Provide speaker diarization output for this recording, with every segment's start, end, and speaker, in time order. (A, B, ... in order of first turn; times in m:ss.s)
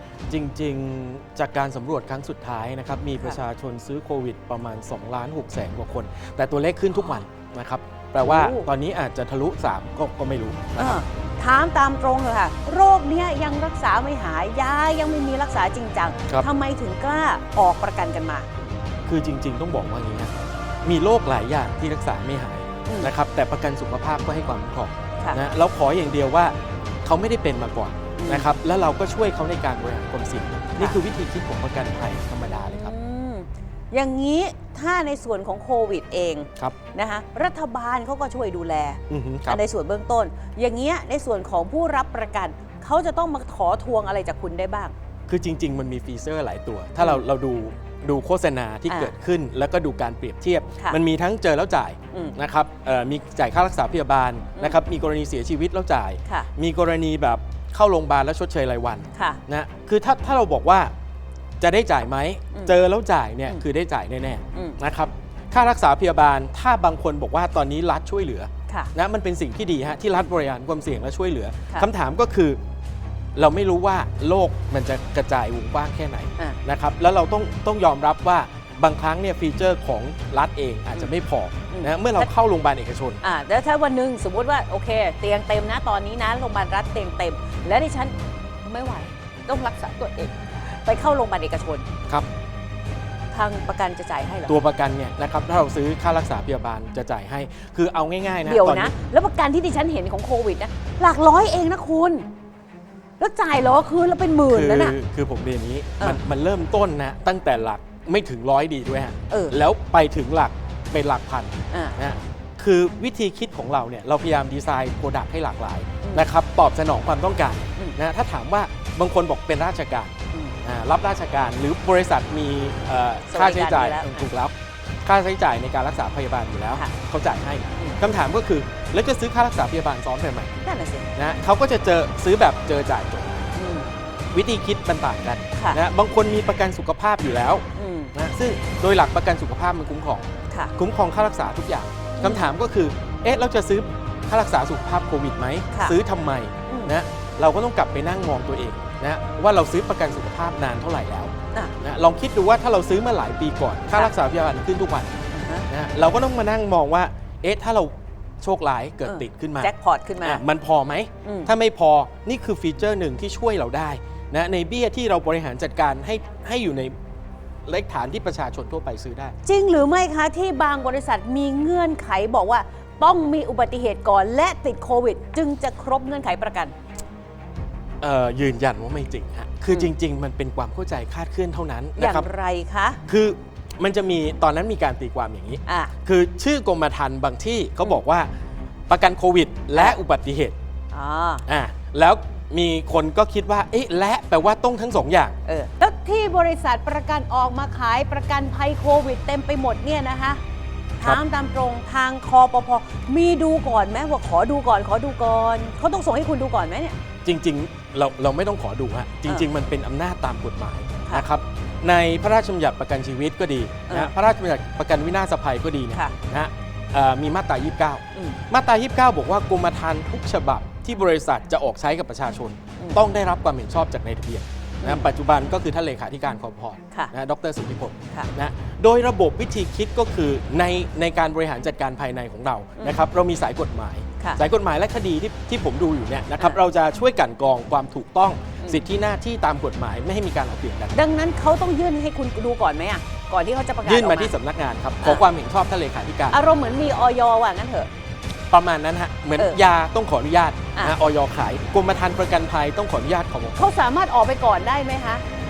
0:00.3-0:11.0 A
0:07.0-0:07.2 B
0:08.2-0:08.7 B
0:10.8-0:18.5 B
0:19.0-0:33.0 A
0:22.9-0:23.1 B
0:28.2-0:28.5 B
0:32.7-0:44.9 B
0:39.1-0:39.6 A
0:45.3-1:00.9 A
0:47.0-0:47.2 B
0:48.9-0:49.2 B
0:54.6-0:54.8 B
0:59.1-0:59.4 B
1:01.6-1:12.6 A
1:04.5-1:04.8 B
1:08.7-1:08.9 B
1:13.4-1:23.2 A
1:21.7-1:22.3 B
1:23.2-1:31.9 B
1:33.3-1:34.6 B
1:34.5-1:38.9 A
1:38.4-1:42.3 B
1:43.2-1:45.0 B
1:44.5-2:10.5 A
1:49.3-1:49.6 B
1:51.7-1:52.0 B
1:56.0-1:56.3 B
2:03.3-2:04.3 B
2:10.6-2:11.1 B
2:11.2-2:13.5 A
2:13.6-2:13.9 B
2:14.3-2:20.3 A
2:15.6-2:15.8 B
2:17.7-2:18.1 B
2:20.8-2:35.2 A
2:22.2-2:22.5 B
2:25.7-2:26.0 B
2:26.7-2:27.0 B
2:35.3-2:35.7 B
2:35.7-2:46.9 A
2:39.0-2:40.4 B
2:41.2-2:41.5 B
2:47.7-2:49.4 A
2:49.4-2:56.8 B
2:58.0-3:02.3 A
3:02.0-3:03.0 B
3:03.1-3:08.3 A
3:05.7-3:05.9 B
3:08.9-3:10.6 A
3:09.7-3:10.0 B
3:10.9-3:11.4 B
3:11.5-3:15.4 A
3:15.5-3:20.4 B
3:21.0-3:27.0 B
3:27.2-4:01.0 A
3:38.1-3:38.4 B
3:44.8-3:45.1 B
3:58.6-3:58.8 B
4:00.9-4:04.3 B
4:03.8-4:06.4 A
4:05.0-4:05.3 B
4:06.3-4:07.9 B
4:08.5-4:13.6 A
4:13.6-4:15.2 B